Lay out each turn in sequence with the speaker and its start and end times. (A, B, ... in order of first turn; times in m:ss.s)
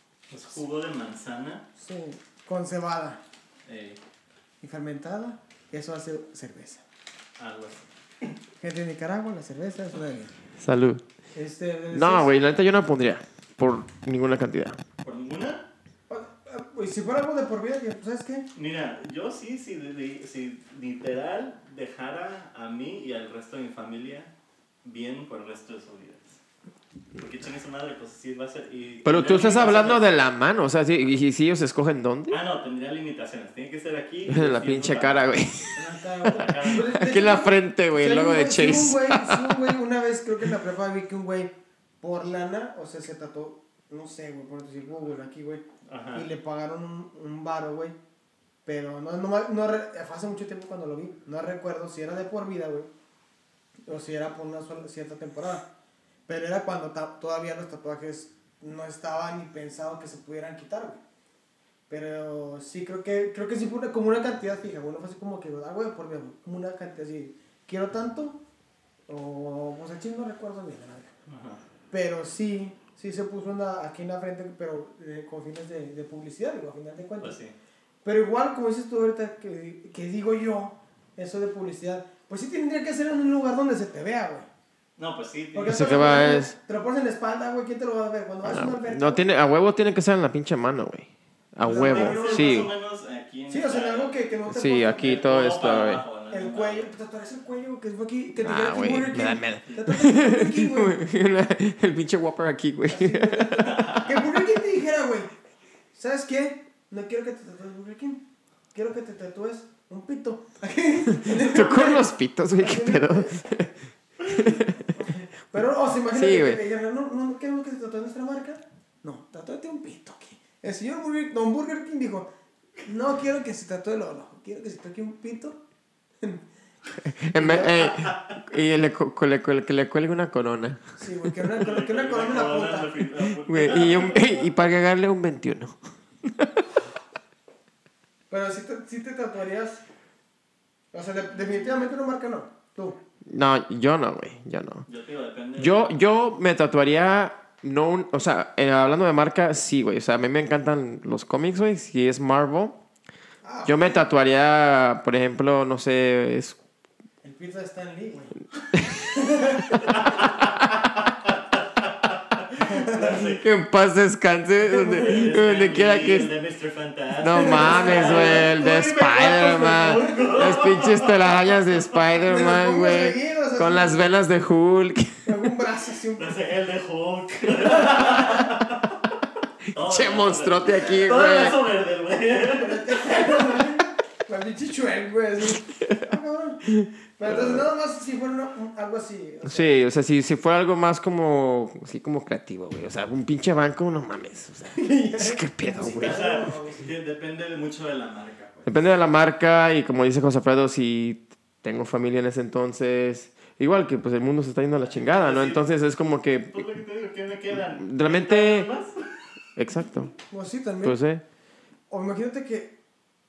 0:00.3-0:01.6 A
0:01.8-0:03.2 B
0:03.7-0:04.0 A
0:04.6-0:06.8 B
0:07.4-0:08.3 A
0:08.6-0:10.3 B
0:10.6-0:11.0 C
0:11.4-0:12.4 B
0:11.9-0:14.8 C
0:15.0-0:15.7 A
0:16.1-0:18.5 B
0:18.6-0:24.3 A
0:24.8-0:26.4 A
0:27.2-0:30.1 A
0:29.0-0:32.4 C
0:32.3-0:35.3 A
0:34.3-0:39.7 C
0:35.8-0:45.6 B
0:36.3-0:37.0 A
0:45.9-0:46.3 A
0:46.2-0:48.0 B
0:48.6-0:52.9 B
0:53.9-0:55.7 B
0:56.3-1:01.0 B
1:01.9-1:08.4 B
1:09.1-1:11.1 B
1:11.3-1:11.6 A
1:11.9-1:17.4 B
1:17.2-1:17.5 A
1:18.0-1:24.5 B
1:25.0-1:26.3 A
1:25.6-1:29.3 B
1:25.7-1:26.6 C
1:28.4-1:32.7 C
1:31.6-1:32.7 B
1:31.7-1:34.4 A
1:33.5-1:35.3 B
1:34.5-1:36.0 C
1:34.9-1:36.9 A
1:36.3-1:41.0 B
1:38.4-1:44.2 C
1:42.9-1:45.3 B
1:43.6-1:44.1 A
1:45.9-1:53.4 B
1:51.1-1:54.9 C
1:54.3-2:02.3 B
1:56.1-1:56.6 C
2:02.8-2:05.6 B
2:07.0-2:11.3 C
2:07.3-2:07.9 B
2:07.8-2:08.4 A
2:11.0-2:13.1 B
2:11.6-2:14.5 A
2:13.4-2:16.6 C
2:18.3-2:19.8 B
2:20.9-2:23.0 B
2:23.3-2:24.9 C
2:24.9-2:26.0 A
2:25.6-2:32.8 C
2:33.4-2:34.1 B
2:33.6-2:36.6 C
2:37.2-2:38.4 B
2:38.8-2:39.0 C
2:39.0-2:39.9 B
2:39.8-2:43.5 A
2:42.6-2:43.2 B
2:43.4-2:46.3 C
2:44.6-2:45.3 B
2:44.9-2:51.8 A
2:47.2-2:55.4 C
2:47.4-2:48.6 B
2:49.5-2:50.3 B
2:52.2-2:54.0 B
2:55.2-2:56.4 B
2:56.2-2:59.0 A
2:57.9-2:58.2 B
2:59.7-3:03.6 A
2:59.8-3:01.6 C
3:02.4-3:09.8 B
3:05.8-3:06.0 C
3:06.7-3:07.7 C
3:09.4-3:16.3 C
3:14.8-3:16.8 B
3:15.9-3:18.8 A
3:18.7-3:26.6 C
3:24.9-3:25.6 A
3:26.5-3:29.1 A
3:27.7-3:28.7 C
3:29.6-3:30.1 C
3:30.3-3:31.0 B
3:30.8-3:31.2 C
3:31.9-3:32.7 B